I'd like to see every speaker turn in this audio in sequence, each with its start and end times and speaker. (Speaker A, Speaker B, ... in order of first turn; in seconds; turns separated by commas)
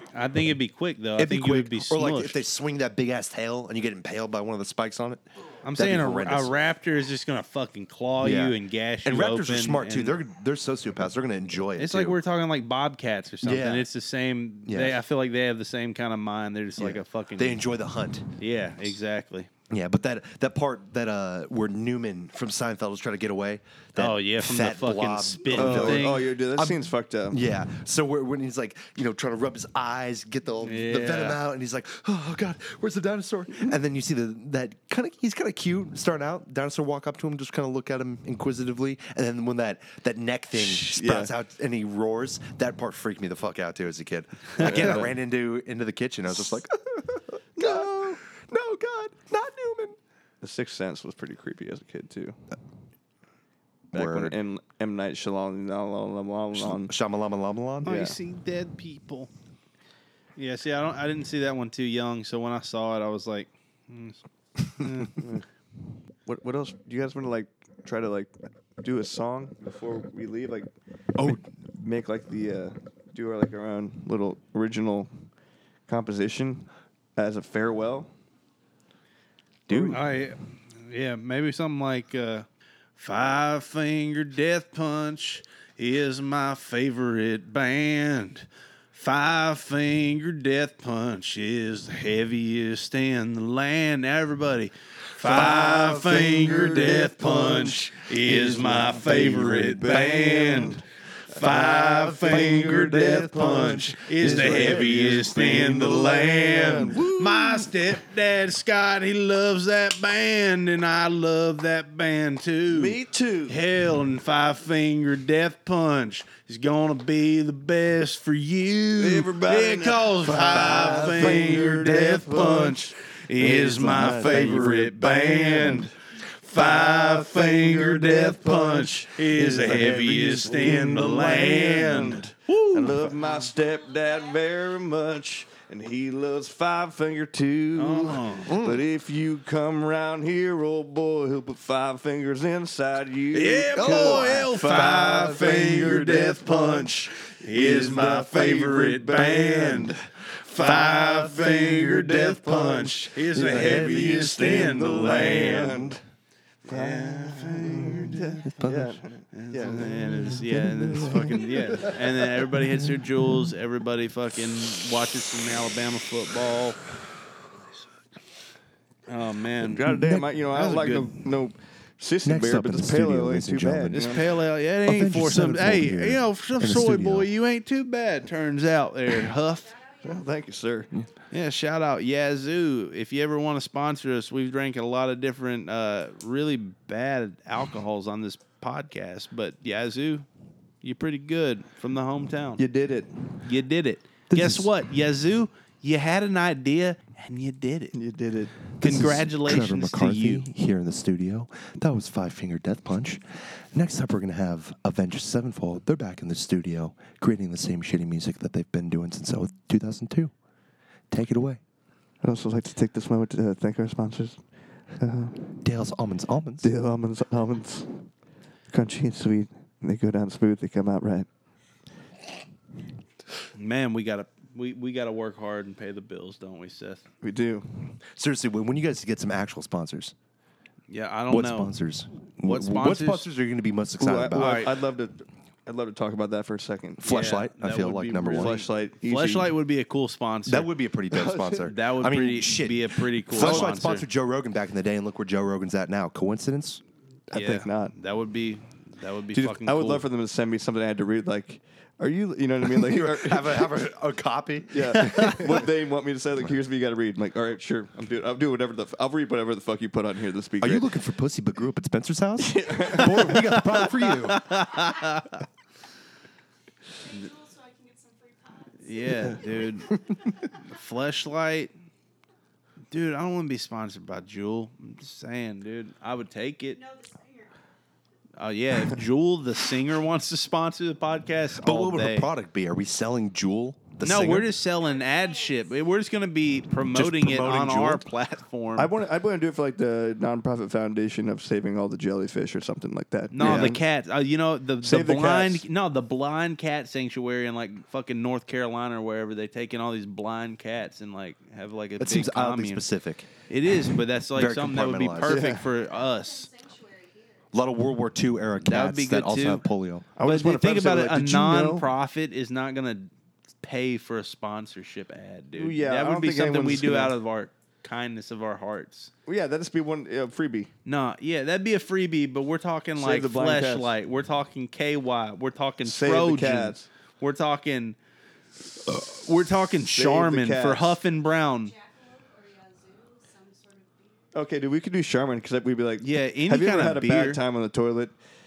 Speaker A: 0.1-2.4, Speaker B: 1.2-6.5, Speaker A: 5.6-10.2, Speaker B: 8.2-12.2, Speaker A: 11.8-17.6, Speaker B: 13.4-13.9, Speaker B: 14.7-15.0, Speaker B: 16.8-18.3, Speaker A: 18.4-19.5, Speaker B: 19.7-50.0, Speaker A: 24.0-26.2, Speaker C: 25.5-27.4, Speaker A: 30.6-31.4, Speaker C: 40.6-41.3, Speaker C: 44.6-45.1, Speaker C: 47.6-48.2, Speaker C: 50.4-52.4, Speaker B: 53.9-54.4, Speaker C: 53.9-56.9, Speaker B: 56.5-58.0, Speaker C: 57.8-58.2, Speaker A: 57.8-59.3, Speaker A: 60.4-65.2, Speaker C: 65.2-65.4, Speaker C: 66.2-70.7, Speaker B: 71.1-71.4, Speaker C: 71.2-75.1, Speaker C: 75.9-78.1, Speaker B: 79.7-80.0, Speaker C: 79.7-80.0, Speaker A: 79.9-133.2, Speaker C: 95.2-107.7, Speaker C: 112.7-113.6, Speaker C: 119.0-122.9, Speaker B: 123.4-124.6, Speaker C: 123.4-125.9, Speaker C: 126.6-146.9, Speaker A: 137.8-138.5, Speaker B: 138.5-138.8, Speaker A: 143.3-155.9, Speaker C: 147.4-150.0, Speaker C: 150.6-156.0, Speaker B: 153.5-154.2, Speaker B: 155.2-155.9, Speaker A: 156.6-158.4, Speaker C: 156.7-161.9, Speaker B: 158.4-158.9, Speaker A: 159.3-166.8, Speaker B: 160.0-161.9, Speaker A: 169.1-170.0, Speaker C: 169.6-174.3, Speaker B: 169.9-170.2, Speaker A: 170.5-171.1, Speaker B: 172.2-174.2, Speaker A: 174.0-179.8, Speaker B: 174.8-177.3, Speaker D: 179.7-180.2, Speaker C: 180.0-180.9, Speaker A: 181.3-190.3, Speaker A: 190.8-192.6, Speaker C: 192.6-193.4, Speaker A: 193.4-197.9, Speaker B: 194.3-194.7, Speaker C: 197.9-198.7, Speaker B: 198.8-210.3, Speaker A: 198.8-200.4, Speaker B: 211.1-211.6, Speaker C: 212.2-214.4, Speaker C: 214.9-215.5, Speaker B: 215.6-216.7, Speaker C: 216.6-218.0, Speaker C: 218.7-221.3, Speaker A: 223.5-227.0, Speaker C: 227.2-228.0, Speaker B: 228.1-230.1, Speaker A: 230.9-231.7, Speaker B: 231.3-234.6, Speaker A: 232.4-233.2, Speaker C: 234.0-237.1, Speaker A: 234.3-234.7, Speaker B: 237.0-238.6, Speaker A: 237.0-240.7, Speaker C: 238.2-239.5, Speaker B: 240.5-246.8, Speaker C: 241.1-241.7, Speaker A: 241.7-244.1, Speaker C: 243.3-243.7, Speaker C: 247.3-247.9, Speaker A: 247.3-250.0, Speaker C: 249.3-253.9, Speaker B: 252.6-255.7, Speaker C: 254.7-260.9, Speaker A: 255.0-255.4, Speaker B: 260.6-264.4, Speaker C: 262.4-263.8, Speaker A: 263.0-265.4, Speaker D: 266.9-270.5, Speaker A: 268.8-269.9, Speaker A: 270.6-271.7, Speaker A: 272.9-276.8, Speaker D: 276.7-277.6, Speaker A: 278.4-282.3, Speaker B: 281.6-284.5, Speaker A: 284.0-288.9, Speaker D: 284.7-286.0, Speaker B: 286.9-288.0, Speaker C: 288.8-293.8, Speaker A: 293.3-302.8, Speaker B: 293.4-293.7, Speaker C: 294.8-295.6, Speaker B: 302.0-303.3, Speaker A: 303.5-306.5, Speaker B: 304.3-305.4, Speaker C: 305.2-305.7, Speaker D: 305.8-307.5, Speaker B: 307.5-310.1, Speaker A: 308.6-309.6, Speaker C: 310.1-311.9, Speaker A: 310.2-319.1, Speaker C: 315.6-317.1, Speaker C: 319.2-320.7, Speaker A: 320.9-328.0, Speaker C: 323.0-323.9, Speaker C: 325.8-326.9, Speaker A: 328.8-331.7, Speaker C: 329.9-331.0, Speaker D: 331.6-334.3, Speaker C: 334.3-338.1, Speaker A: 336.0-337.4